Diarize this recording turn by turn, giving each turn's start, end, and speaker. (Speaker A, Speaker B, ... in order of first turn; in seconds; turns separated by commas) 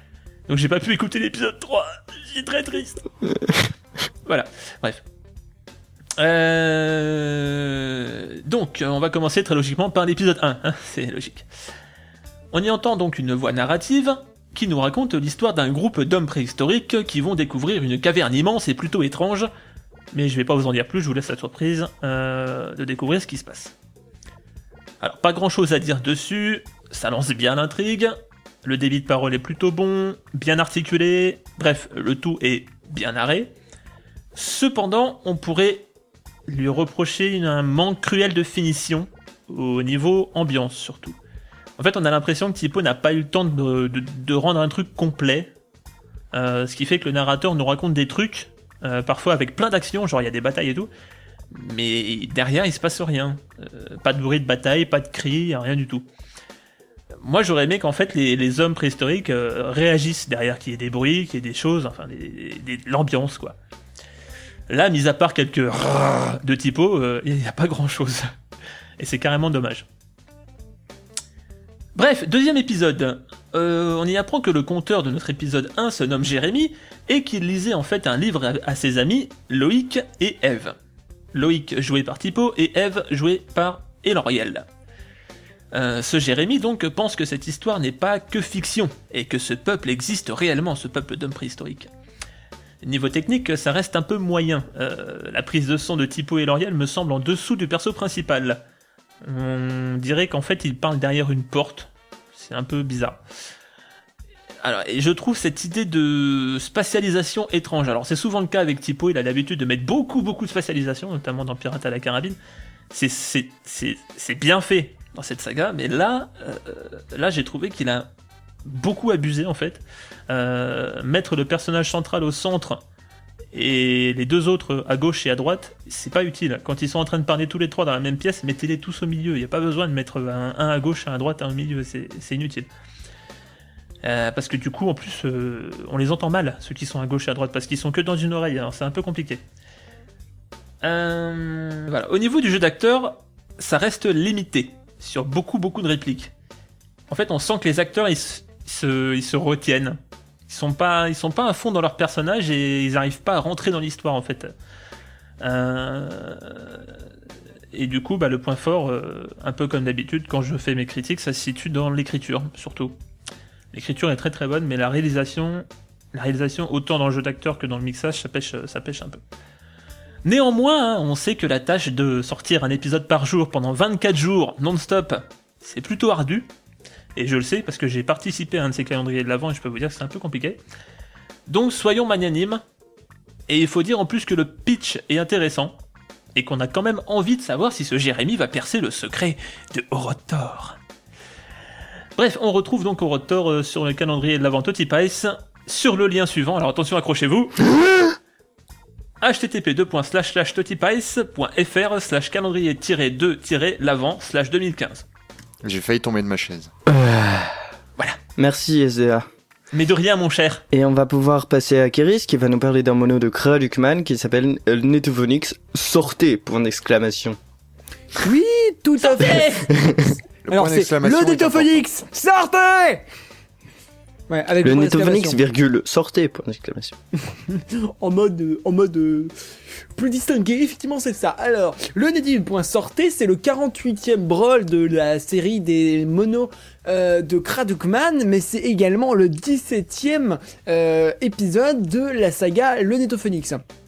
Speaker A: 0.5-3.0, Speaker A: 4.3-5.0, Speaker A: 6.2-11.4, Speaker A: 12.5-19.5, Speaker A: 20.1-23.7, Speaker A: 25.0-33.5, Speaker A: 34.4-35.9, Speaker A: 36.5-41.2, Speaker A: 41.8-45.5, Speaker A: 46.3-50.9, Speaker A: 51.5-56.0, Speaker A: 57.2-63.6, Speaker A: 64.7-68.3, Speaker A: 69.0-69.9, Speaker A: 72.0-80.8, Speaker A: 81.3-84.7, Speaker A: 85.7-91.9, Speaker A: 92.8-98.6, Speaker A: 99.2-103.2, Speaker A: 104.6-112.4, Speaker A: 112.9-118.1, Speaker A: 118.7-122.8, Speaker A: 123.5-132.7, Speaker A: 134.0-139.4, Speaker A: 140.8-146.3, Speaker A: 147.1-154.5, Speaker A: 155.4-156.9, Speaker A: 157.7-163.0, Speaker A: 163.7-169.2, Speaker A: 170.2-176.5, Speaker A: 177.2-180.6, Speaker A: 181.5-182.6, Speaker A: 183.5-185.8, Speaker A: 186.3-190.8, Speaker A: 192.2-198.1, Speaker A: 199.2-205.1, Speaker B: 205.6-206.7, Speaker C: 206.9-207.4, Speaker C: 208.4-209.3, Speaker A: 209.7-210.7, Speaker C: 210.7-217.4, Speaker D: 218.2-219.8, Speaker C: 219.7-220.1, Speaker B: 220.4-221.8, Speaker D: 220.5-223.0, Speaker D: 224.3-225.4, Speaker C: 224.6-227.0, Speaker D: 227.3-229.3, Speaker D: 230.0-243.6